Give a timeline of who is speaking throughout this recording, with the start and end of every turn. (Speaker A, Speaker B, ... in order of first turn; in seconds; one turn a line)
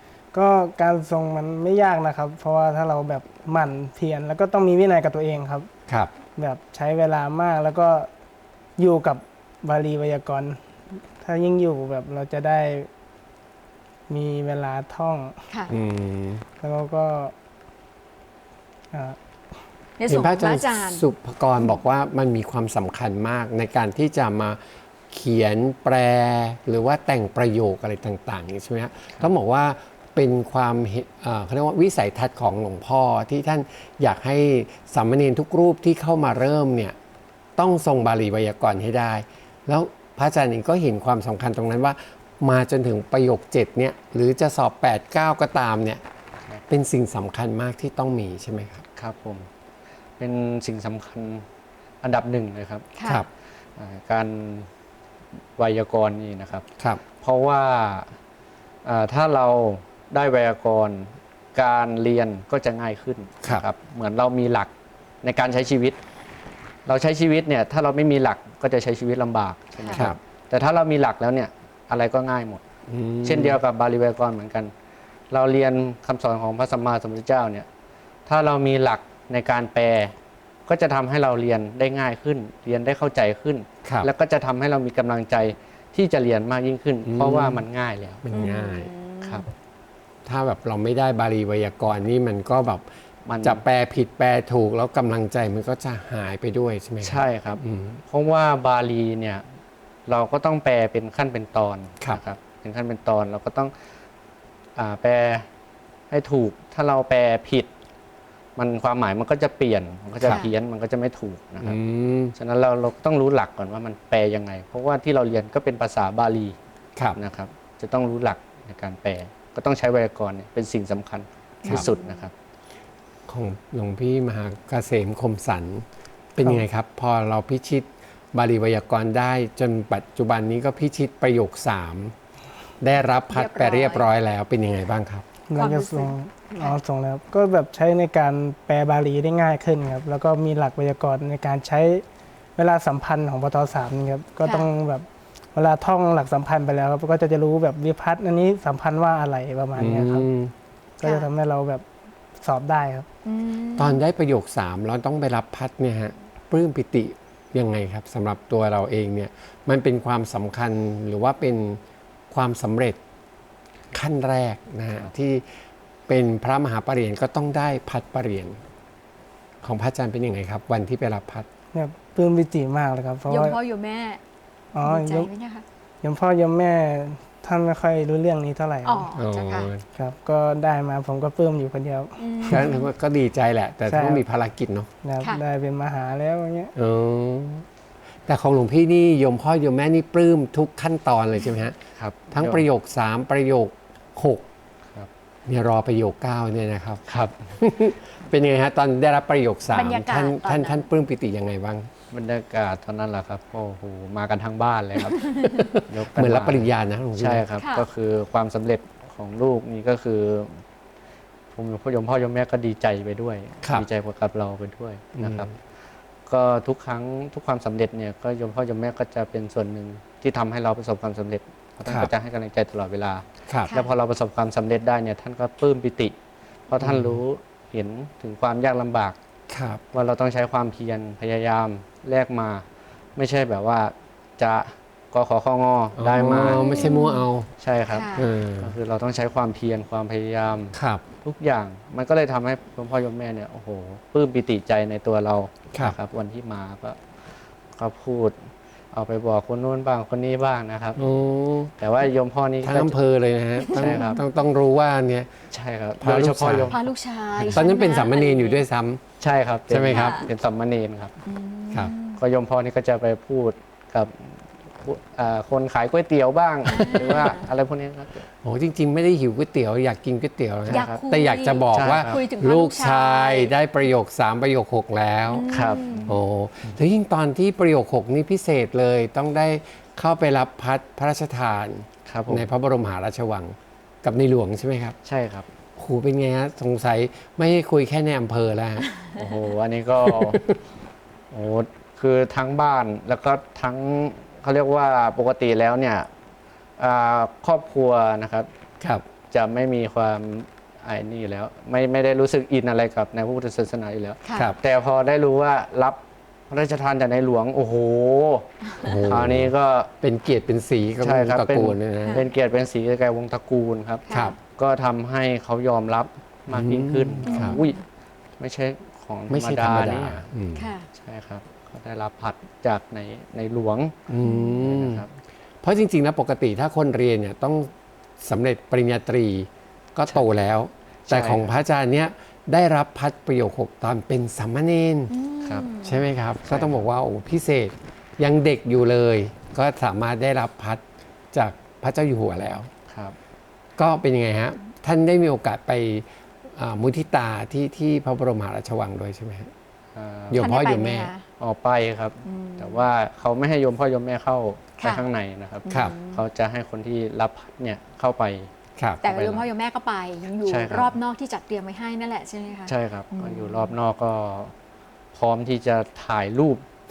Speaker A: 0.3-5.7
Speaker A: 6.3-8.1
Speaker A: 8.8-12.9
Speaker A: 14.1-15.4
Speaker B: 15.7-16.4
Speaker A: 16.6-17.3
Speaker A: 18.9-19.2
Speaker C: 20.0-21.0
Speaker B: 20.1-37.0
Speaker B: 37.6-46.0
Speaker B: 46.7-48.8
Speaker D: 49.0-49.5
Speaker D: 50.2-51.4
Speaker D: 52.0-52.9
Speaker C: 53.0-53.2
Speaker D: 53.8-54.7
Speaker D: 55.6-56.6
Speaker D: 57.2-58.1
Speaker D: 58.8-64.7
Speaker D: 65.2-66.0
Speaker D: 66.8-72.6
Speaker C: 69.8-70.0
Speaker B: 72.9-73.6
Speaker D: 73.2-74.7
Speaker D: 75.3-77.7
Speaker D: 78.2-80.1
Speaker D: 80.7-88.5
Speaker B: 83.8-84.1
Speaker B: 87.0-87.6
Speaker B: 88.2-88.9
Speaker C: 88.3-89.4
Speaker B: 90.2-92.8
Speaker D: 93.2-93.6
Speaker B: 93.4-98.0
Speaker D: 97.0-99.4
Speaker D: 100.1-103.7
Speaker D: 104.8-105.5
Speaker D: 106.1-107.7
Speaker D: 108.5-111.8
Speaker C: 110.3-110.5
Speaker B: 111.6-112.3
Speaker D: 112.3-116.5
Speaker D: 117.1-122.3
Speaker C: 121.6-122.2
Speaker B: 123.3-125.8
Speaker B: 126.3-132.1
Speaker B: 132.8-135.2
Speaker C: 133.3-134.1
Speaker A: 135.5-142.0
Speaker C: 135.6-136.8
Speaker A: 142.6-150.3
Speaker C: 144.4-144.7
Speaker B: 149.7-150.5
Speaker A: 151.0-151.8
Speaker C: 151.0-151.3
Speaker A: 152.4-153.1
Speaker C: 153.2-154.0
Speaker B: 153.8-163.0
Speaker B: 163.9-165.5
Speaker B: 166.1-168.6
Speaker B: 169.6-171.5
Speaker A: 171.7-173.6
Speaker C: 173.3-174.2
Speaker A: 174.7-175.3
Speaker C: 174.8-175.6
Speaker A: 176.0-179.1
Speaker C: 178.8-179.7
Speaker B: 179.2-179.8
Speaker A: 179.9-182.6
Speaker C: 182.2-182.9
Speaker B: 182.4-184.9
Speaker A: 183.9-184.2
Speaker A: 185.0-186.7
Speaker B: 186.8-187.7
Speaker B: 188.2-191.8
Speaker D: 192.0-192.6
Speaker B: 192.3-194.4
Speaker B: 195.4-201.9
Speaker D: 197.1-197.3
Speaker C: 199.7-200.8
Speaker D: 202.1-210.6
Speaker B: 205.4-207.4
Speaker C: 207.6-207.8
Speaker D: 211.5-215.5
Speaker B: 215.2-215.5
Speaker D: 216.3-226.1
Speaker B: 221.8-222.1
Speaker D: 226.7-229.2
Speaker B: 226.8-227.2
Speaker B: 229.5-229.8
Speaker D: 229.9-232.6
Speaker D: 233.2-236.9
Speaker B: 236.0-237.5
Speaker C: 236.2-237.2
Speaker D: 237.6-247.0
Speaker C: 237.9-238.3
Speaker B: 238.1-238.7
Speaker B: 240.7-241.0
Speaker D: 247.8-248.3
Speaker D: 248.9-251.0
Speaker B: 251.0-251.7
Speaker D: 251.8-253.0
Speaker B: 252.6-255.3
Speaker C: 253.6-254.2
Speaker D: 253.6-254.2
Speaker D: 255.5-256.8
Speaker B: 256.0-256.8
Speaker C: 256.7-258.6
Speaker D: 257.4-257.6
Speaker B: 257.4-259.0
Speaker D: 259.2-261.1
Speaker B: 259.7-260.2
Speaker C: 259.9-260.2
Speaker C: 261.2-262.2
Speaker D: 262.2-268.2
Speaker C: 266.7-267.4
Speaker B: 266.7-267.3
Speaker B: 268.4-275.5
Speaker D: 270.6-271.0
Speaker C: 270.7-273.5
Speaker D: 271.7-272.2
Speaker C: 275.3-276.1
Speaker D: 275.5-276.2
Speaker B: 276.1-284.9
Speaker D: 282.1-282.5
Speaker D: 285.0-285.5
Speaker B: 285.8-288.9
Speaker D: 289.1-290.5
Speaker B: 290.0-290.6
Speaker D: 291.3-296.1
Speaker D: 296.8-298.5
Speaker B: 298.8-299.1
Speaker D: 299.3-306.0
Speaker C: 304.2-304.5
Speaker D: 306.5-309.9
Speaker B: 308.8-312.2
Speaker D: 311.0-317.8
Speaker C: 314.1-314.4
Speaker B: 316.5-317.6
Speaker C: 317.2-317.8
Speaker D: 318.4-320.3
Speaker B: 319.3-320.7
Speaker C: 320.5-320.9
Speaker D: 320.9-325.1
Speaker B: 324.1-325.0
Speaker C: 324.2-324.6
Speaker B: 325.6-335.1
Speaker D: 331.1-331.5
Speaker C: 335.1-336.0
Speaker B: 335.8-342.7
Speaker D: 336.4-336.9
Speaker D: 342.9-343.2
Speaker B: 343.8-349.5
Speaker D: 349.9-350.4
Speaker B: 350.3-351.1
Speaker C: 350.4-351.2
Speaker D: 351.4-358.5
Speaker C: 352.2-352.8
Speaker C: 355.6-356.2
Speaker B: 355.7-355.9
Speaker D: 359.0-359.4
Speaker C: 359.0-363.7
Speaker D: 360.4-360.9
Speaker D: 362.7-364.5
Speaker D: 365.1-366.6